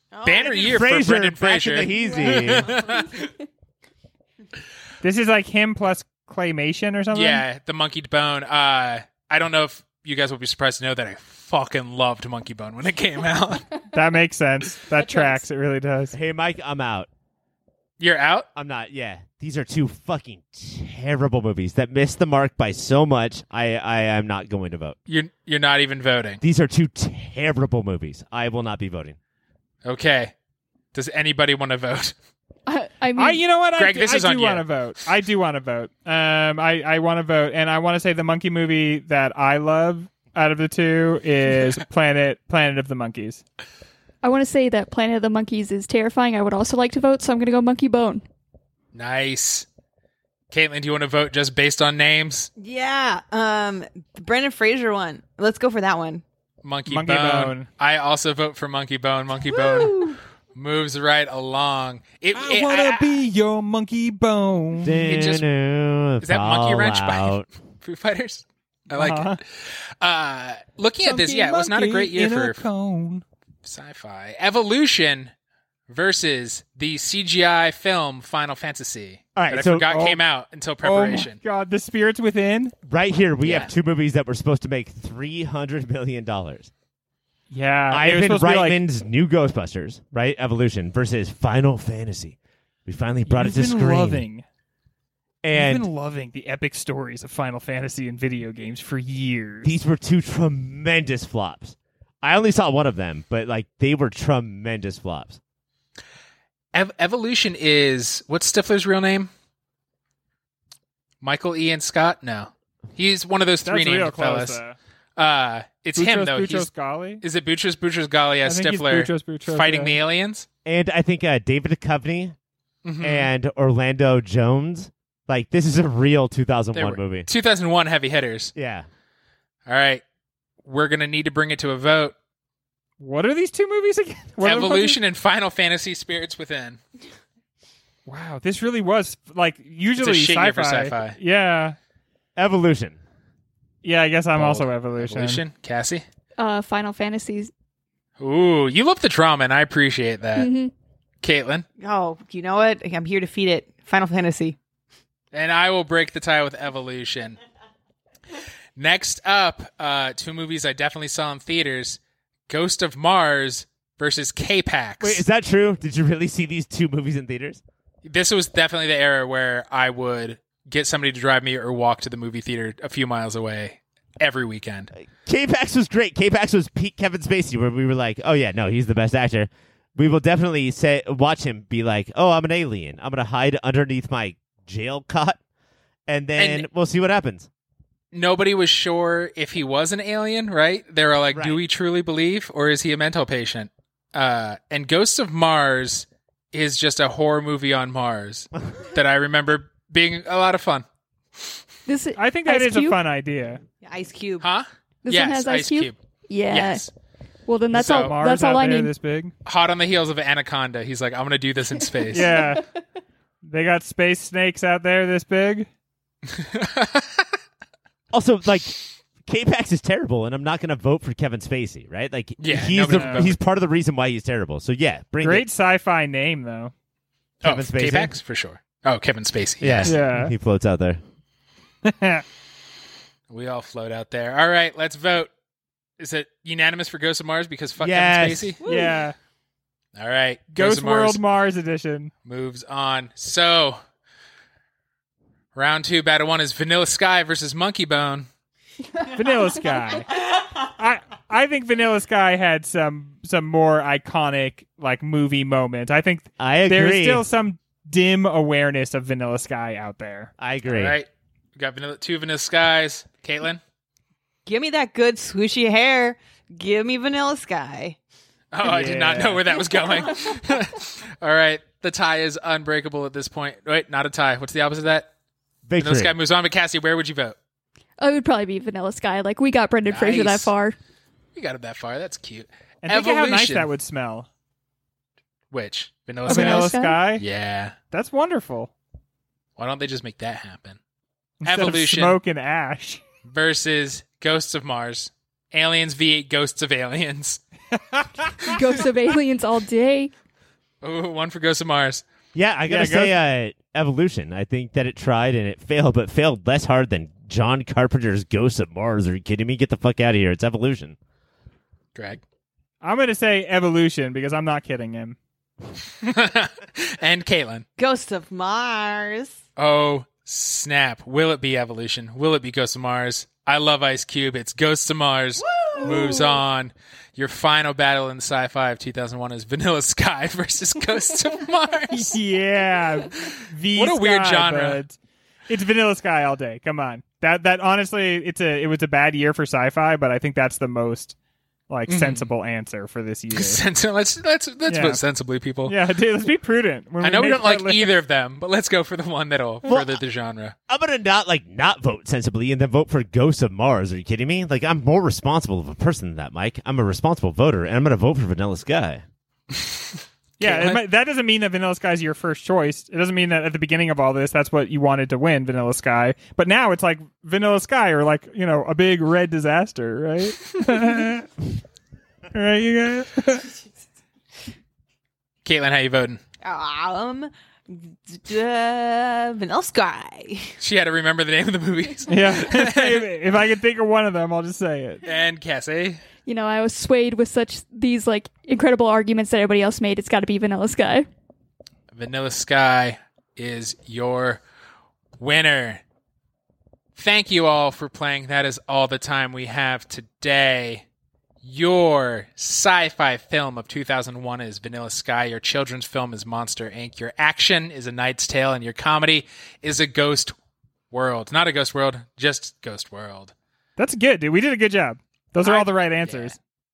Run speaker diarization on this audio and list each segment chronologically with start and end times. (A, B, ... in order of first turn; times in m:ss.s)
0:00.1-0:00.8 A
0:00.2-0:03.1 B
0:00.6-0:02.7 C
0:05.0-0:07.4 D
0:07.1-0:13.8 B
0:13.9-0:16.2 D
0:16.1-0:17.1 C
0:18.0-0:18.5 B
0:18.6-0:25.0 C
0:25.1-0:26.4 B
0:26.4-0:29.2 C
0:29.8-0:30.3 B
0:30.9-0:32.1 B
0:32.7-0:33.4 E
0:33.2-0:43.4 D
0:33.8-0:34.7 B
0:44.2-0:48.2 E
0:48.9-0:49.7 B
0:50.5-0:52.5 B
0:52.6-0:56.2 A
0:56.6-1:03.2 B
0:56.9-0:57.7 D
0:59.4-1:00.2 A
1:02.3-1:05.2 D
1:04.8-1:07.5 C
1:05.1-1:05.4 B
1:06.2-1:12.6 B
1:08.9-1:09.4 D
1:11.0-1:13.2 D
1:13.6-1:15.3 B
1:15.9-1:21.4 B
1:19.4-1:20.2 D
1:19.5-1:19.8 C
1:20.8-1:22.7 D
1:22.9-1:26.7 C
1:23.4-1:23.7 B
1:27.5-1:28.8 D
1:27.9-1:32.4 C
1:32.9-1:34.2 C
1:33.3-1:34.4 D
1:35.4-1:35.9 C
1:35.5-1:39.7 D
1:39.6-1:45.4 C
1:46.7-1:49.3 B
1:51.2-1:54.6 B
1:53.6-1:54.8 D
1:55.2-1:56.7 B
1:56.0-1:57.2 D
1:57.2-2:00.5 B
1:58.4-2:00.0 D
2:00.6-2:02.3 C
2:02.8-2:03.3 B
2:03.0-2:07.3 C
2:06.8-2:08.5 B
2:08.6-2:08.9 C
2:09.7-2:10.0 B
2:10.6-2:12.1 B
2:13.0-2:15.0 D
2:14.4-2:16.8 B
2:18.1-2:21.8 D
2:20.0-2:21.2 B
2:22.4-2:23.0 C
2:23.8-2:25.4 D
2:24.4-2:26.0 B
2:26.4-2:27.5 E
2:28.2-2:30.5 B
2:30.4-2:30.7 E
2:31.2-2:31.6 B
2:31.8-2:34.6 A
2:35.3-2:37.4 B
2:38.8-2:45.2 B
2:45.0-2:47.6 C
2:48.0-2:54.9 B
2:55.2-3:05.4 C
3:06.1-3:07.5 C
3:06.4-3:06.7 B
3:08.1-3:20.8 B
3:11.3-3:11.6 C
3:21.9-3:23.0 E
3:22.2-3:23.6 D
3:23.8-3:24.4 A
3:24.4-3:26.0 B
3:25.0-3:26.8 E
3:26.5-3:26.9 B
3:27.5-3:28.9 E
3:27.7-3:28.2 B
3:27.7-3:29.3 D
3:29.4-3:32.5 B
3:32.1-3:32.7 D
3:32.1-3:32.7 E
3:33.4-3:35.7 D
3:36.3-3:37.3 B
3:38.1-3:45.5 C
3:42.4-3:43.4 B
3:42.9-3:43.3 D
3:45.2-3:46.7 D
3:47.4-3:48.2 C
3:47.4-3:50.0 B
3:49.6-3:51.0 C
3:49.8-3:50.3 D
3:51.8-3:52.2 D
3:53.3-3:55.3 B
3:56.0-3:58.6 B
3:57.8-3:58.6 C
3:58.6-3:59.2 D
3:58.6-3:59.0 A
4:00.0-4:01.2 B
4:00.5-4:02.1 D
4:02.2-4:03.8 B
4:05.6-4:08.3 B
4:09.0-4:20.3 D
4:16.4-4:17.2 C
4:20.4-4:21.0 C
4:20.7-4:23.6 B
4:24.5-4:28.0 A
4:28.5-4:35.1 B
4:28.6-4:29.5 D
4:35.7-4:36.2 C
4:35.8-4:37.4 B
4:38.0-4:40.8 E
4:39.9-4:40.5 B
4:41.4-4:43.7 B
4:42.8-4:44.3 D
4:45.5-4:47.8 B
4:46.2-4:47.2 D
4:46.3-4:47.0 E
4:47.9-4:48.7 D
4:49.6-4:50.8 B
4:51.4-4:53.0 D
4:51.4-4:52.2 B
4:53.3-4:57.4 B
4:57.7-4:58.7 D
4:58.4-5:00.1 E
5:00.8-5:02.0 B
5:02.3-5:11.0 C
5:02.7-5:03.1 D
5:12.0-5:12.2 B
5:12.8-5:15.2 D
5:16.0-5:17.6 B
5:17.8-5:19.4 A
5:19.6-5:32.1 B
5:25.5-5:26.3 A
5:31.9-5:35.0 D
5:33.2-5:34.8 B
5:35.5-5:41.2 D
5:41.7-5:43.6 D
5:41.9-5:42.3 B
5:43.3-5:45.8 B
5:44.7-5:45.0 D
5:45.6-5:47.9 D
5:47.0-5:50.6 B
5:49.7-5:50.0 C
5:50.7-5:59.0 C
5:59.5-6:00.8 B
6:00.4-6:11.3 D
6:12.3-6:13.5 D
6:15.4-6:16.2 B
6:16.4-6:20.5 A
6:20.6-6:23.1 B
6:22.1-6:25.0 D
6:25.0-6:26.0 B
6:26.3-6:31.1 E
6:31.9-6:34.4 B
6:35.2-6:35.8 B
6:37.0-6:40.8 B
6:41.4-6:50.4 B
6:50.9-6:53.3 B
6:53.8-6:56.4 D
6:55.4-6:56.4 B